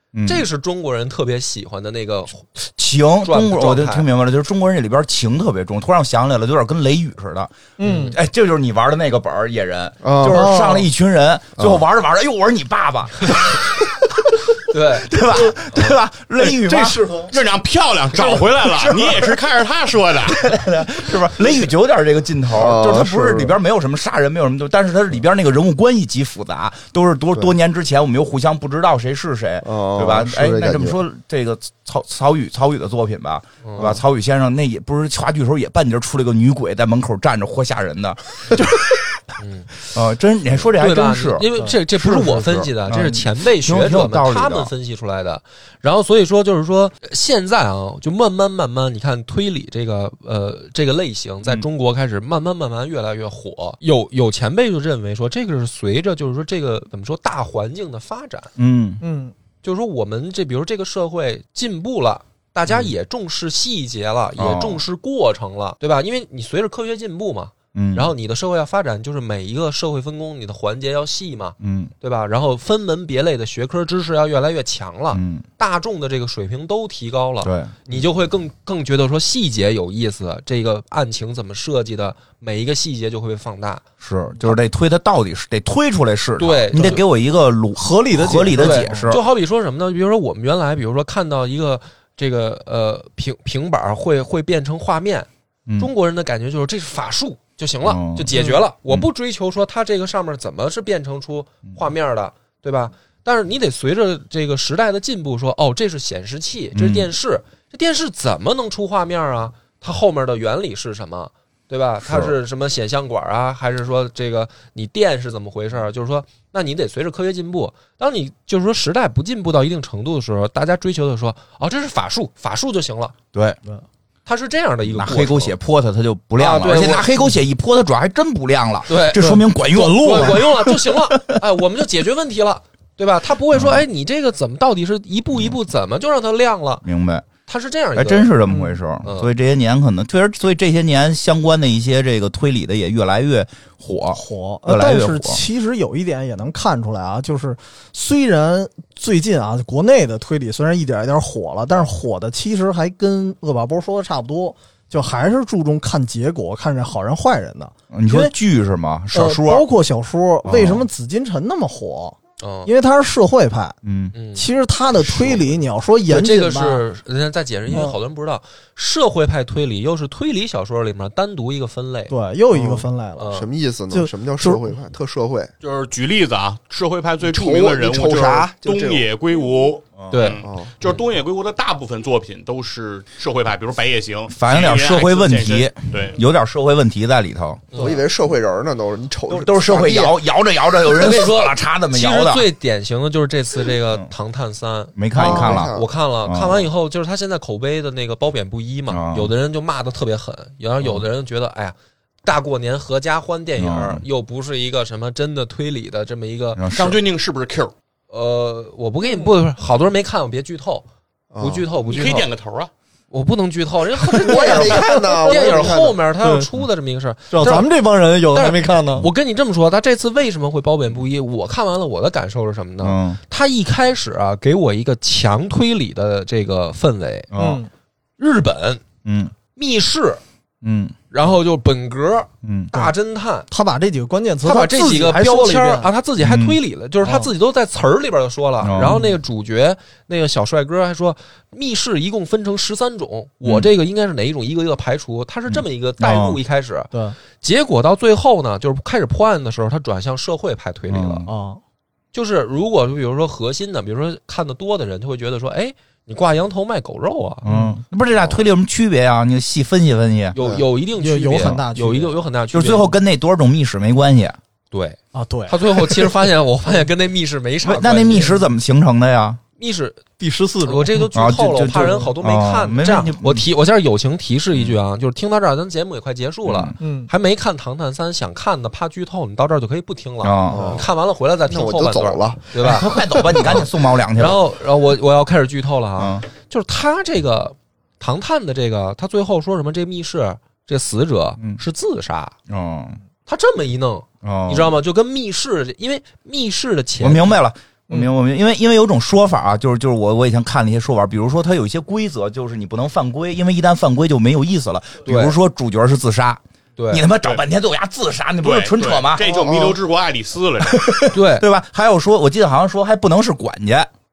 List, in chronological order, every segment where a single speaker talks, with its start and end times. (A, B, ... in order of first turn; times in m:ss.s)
0:00.1-0:00.5 A
0:00.2-0:02.5 B
0:02.8-0:17.2 A
0:03.2-0:04.1 B
0:07.8-0:08.2 C
0:07.8-0:08.1 B
0:10.0-0:10.5 D
0:10.2-0:10.9 C
0:11.6-0:11.8 D
0:14.7-0:16.0 B
0:16.6-0:17.3 C
0:17.3-0:20.4 E
0:18.1-0:19.4 A
0:20.2-0:39.2 A
0:22.5-0:23.6 D
0:29.6-0:31.0 D
0:33.6-0:34.0 B
0:39.4-0:39.8 B
0:39.9-0:44.7 A
0:40.7-0:58.5 B
0:58.6-0:59.0 A
0:59.0-0:59.3 C
0:59.6-1:23.8 B
1:02.6-1:02.9 A
1:04.4-1:04.8 A
1:07.7-1:08.1 A
1:11.6-1:11.9 A
1:15.1-1:15.4 A
1:17.4-1:17.9 A
1:24.0-1:29.2 A
1:26.4-1:27.0 B
1:27.8-1:29.1 C
1:28.6-2:03.1 B
1:37.8-1:38.3 A
1:38.3-1:38.6 C
1:46.7-1:47.1 A
1:52.0-1:52.3 A
2:03.3-2:03.6 A
2:04.2-2:05.5 B
2:04.9-2:11.4 A
2:06.4-2:07.3 B
2:08.9-2:16.8 B
2:09.2-2:09.4 C
2:13.5-2:13.8 A
2:16.8-2:17.3 A
2:17.4-2:18.3 B
2:17.9-2:25.4 A
2:18.5-2:18.8 C
2:19.0-2:19.3 B
2:24.1-2:38.3 C
2:37.9-2:39.6 A
2:39.1-2:43.8 C
2:40.4-2:40.8 A
2:42.4-2:42.7 B
2:43.8-2:44.1 A
2:44.1-2:44.4 B
2:44.3-2:46.8 C
2:45.1-2:45.4 B
2:46.1-2:52.1 B
2:47.7-2:48.0 C
2:52.1-2:53.3 C
2:52.5-2:55.5 D
2:53.2-2:53.5 B
2:53.9-2:54.7 C
2:55.6-3:06.2 E
2:57.2-2:59.1 D
3:00.1-3:01.0 B
3:00.4-3:00.7 D
3:04.3-3:07.7 A
3:07.7-3:08.0 B
3:07.7-3:10.2 D
3:09.3-3:12.5 A
3:10.9-3:26.7 B
3:15.0-3:16.7 A
3:15.1-3:15.6 C
3:15.1-3:15.9 D
3:18.9-3:19.3 A
3:23.6-3:24.0 A
3:26.6-3:27.0 A
3:26.7-3:27.7 E
3:28.1-3:30.8 B
3:31.3-3:31.7 D
3:31.4-3:32.3 B
3:31.8-3:32.7 E
3:33.1-3:37.7 B
3:34.1-3:36.5 C
3:34.1-3:36.0 D
3:37.3-3:39.0 C
3:38.3-3:47.3 B
3:42.8-3:43.2 A
3:47.3-3:47.6 A
3:47.4-3:47.7 C
3:48.2-3:48.9 B
3:49.0-3:49.3 A
3:49.4-3:50.2 B
3:50.6-3:51.0 A
3:51.1-3:53.5 B
3:52.4-3:52.7 A
3:53.5-3:55.9 C
3:54.4-4:11.3 B
3:56.2-3:56.6 A
3:58.6-3:59.0 A
3:58.8-3:59.1 C
4:03.4-4:03.7 A
4:05.5-4:06.4 A
4:10.9-4:11.3 A
4:11.3-4:11.6 C
4:12.1-4:17.5 B
4:17.4-4:20.4 A
4:17.4-4:17.8 C
4:20.3-4:22.9 B
4:20.4-4:22.2 C
4:22.5-4:24.4 A
4:24.7-4:28.4 B
4:25.1-4:26.1 C
4:27.6-4:29.4 A
4:29.6-4:30.0 B
4:30.2-4:31.1 C
4:30.6-4:52.3 B
4:31.1-4:33.4 A
4:36.4-4:36.7 A
4:36.8-4:37.1 C
4:40.2-4:40.8 A
4:40.5-4:40.9 D
4:41.4-4:43.5 D
4:42.6-4:44.4 A
4:46.0-4:46.2 A
4:52.5-4:53.0 A
4:53.2-4:57.4 B
4:54.2-4:54.7 A
4:57.0-5:09.4 A
5:05.0-5:05.4 B
5:06.8-5:07.1 B
5:08.4-5:11.0 E
5:09.2-5:09.8 D
5:10.6-5:13.9 A
5:11.1-5:11.4 B